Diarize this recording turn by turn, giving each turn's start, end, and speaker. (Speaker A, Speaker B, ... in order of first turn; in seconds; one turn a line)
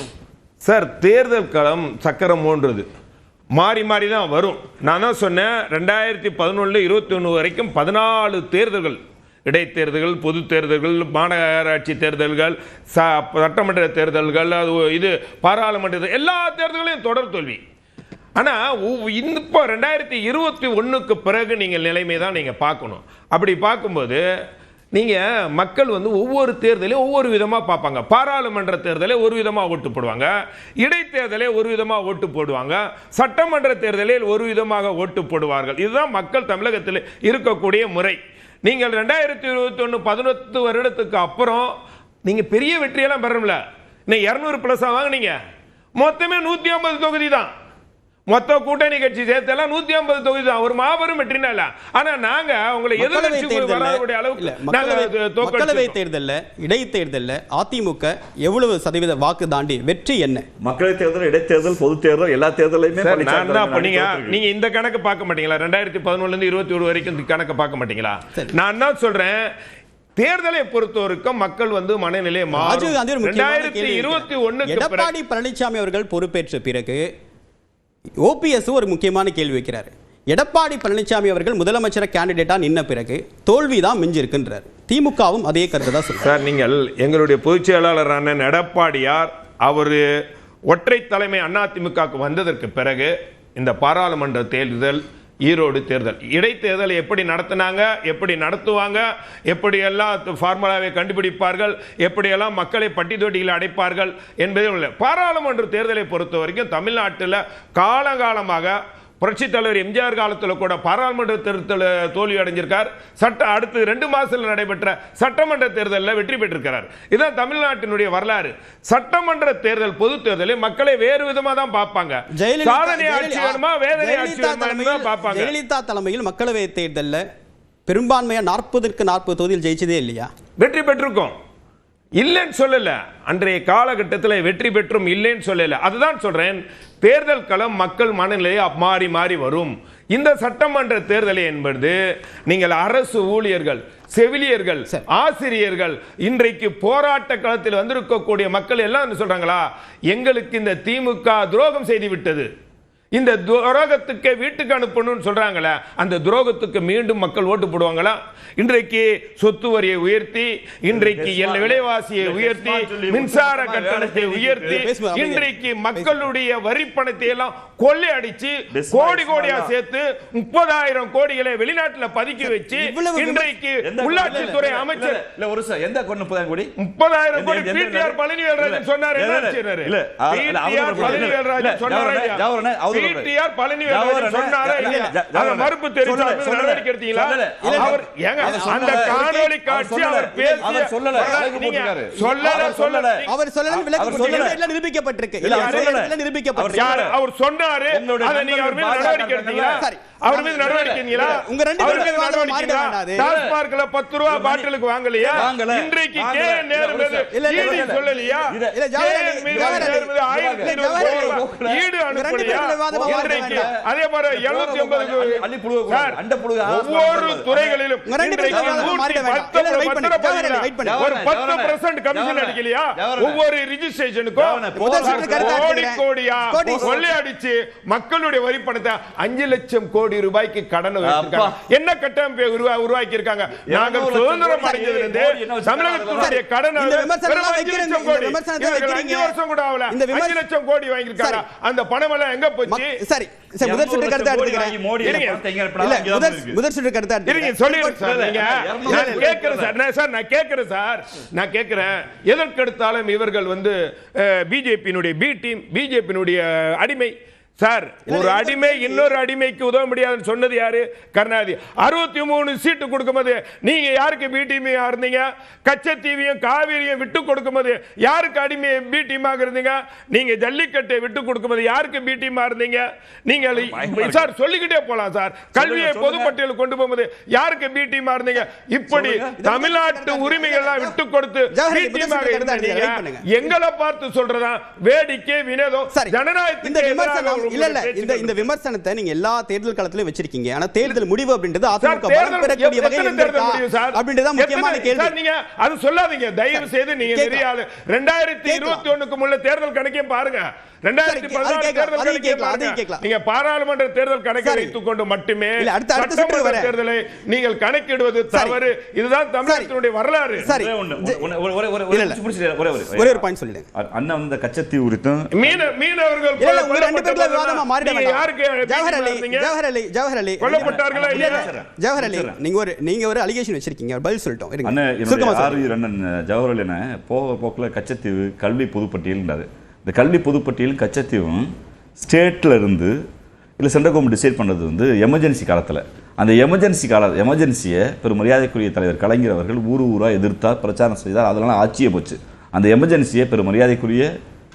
Speaker A: 0.6-2.9
Speaker A: 3.5-17.6
Speaker A: 18.4-24.2
Speaker A: 24.9-41.7
Speaker A: 42.2-45.3
Speaker A: 46.0-47.5
Speaker A: 48.3-55.9
Speaker B: 53.0-60.5
Speaker C: 60.6-64.4
Speaker A: 63.0-69.5
Speaker A: 70.2-75.1
Speaker B: 72.5-77.0
Speaker B: 78.2-86.3
Speaker A: 86.2-90.0
Speaker A: 90.7-125.5
Speaker B: 122.3-127.2
Speaker B: 127.9-130.3
Speaker A: 130.6-131.3
Speaker A: 132.2-152.5
Speaker A: 153.1-175.2
Speaker C: 160.9-164.8
Speaker B: 164.7-166.2
Speaker C: 168.7-169.7
Speaker B: 172.4-173.5
Speaker C: 173.8-176.7
Speaker B: 174.2-174.6
Speaker A: 176.8-193.3
Speaker C: 177.3-183.3
Speaker B: 181.0-181.2
Speaker C: 183.9-194.6
Speaker B: 184.8-185.1
Speaker B: 187.6-189.5
Speaker B: 190.4-191.4
Speaker B: 192.2-196.9
Speaker A: 194.0-194.6
Speaker C: 195.4-197.1
Speaker A: 195.4-195.9
Speaker A: 196.7-242.9
Speaker C: 197.9-199.8
Speaker B: 199.8-203.3
Speaker C: 200.6-202.1
Speaker C: 203.2-203.6
Speaker C: 204.3-204.7
Speaker B: 205.2-205.4
Speaker C: 205.3-208.8
Speaker B: 207.3-208.0
Speaker B: 208.7-211.4
Speaker C: 209.5-211.8
Speaker B: 212.1-213.7
Speaker C: 212.4-213.8
Speaker C: 214.3-217.8
Speaker B: 218.1-221.0
Speaker C: 218.5-219.0
Speaker C: 220.8-223.4
Speaker C: 224.3-225.7
Speaker B: 224.7-227.1
Speaker C: 226.6-226.9
Speaker C: 231.0-231.6
Speaker C: 233.7-236.3
Speaker B: 234.6-235.0
Speaker B: 236.1-239.3
Speaker B: 239.9-240.4
Speaker B: 242.7-245.3
Speaker C: 243.6-246.6
Speaker A: 245.0-245.4
Speaker B: 245.8-248.2
Speaker A: 247.2-288.5
Speaker C: 248.0-249.7
Speaker B: 248.8-249.3
Speaker B: 258.1-259.2
Speaker C: 273.5-274.3
Speaker C: 275.5-276.4
Speaker C: 278.9-279.4
Speaker B: 279.4-281.0
Speaker B: 281.5-283.5
Speaker B: 285.9-295.1
Speaker A: 291.8-310.5
Speaker B: 296.5-297.4
Speaker B: 298.4-298.9
Speaker B: 301.0-303.0
Speaker B: 304.4-304.7
Speaker B: 305.6-306.7
Speaker B: 308.3-308.6
Speaker B: 309.4-309.7
Speaker C: 310.4-315.7
Speaker B: 310.4-311.2
Speaker B: 311.9-312.2
Speaker B: 312.9-313.7
Speaker A: 315.3-319.5
Speaker B: 316.4-325.7
Speaker A: 320.4-321.5
Speaker C: 320.6-322.4
Speaker C: 324.6-332.9
Speaker C: 333.6-344.1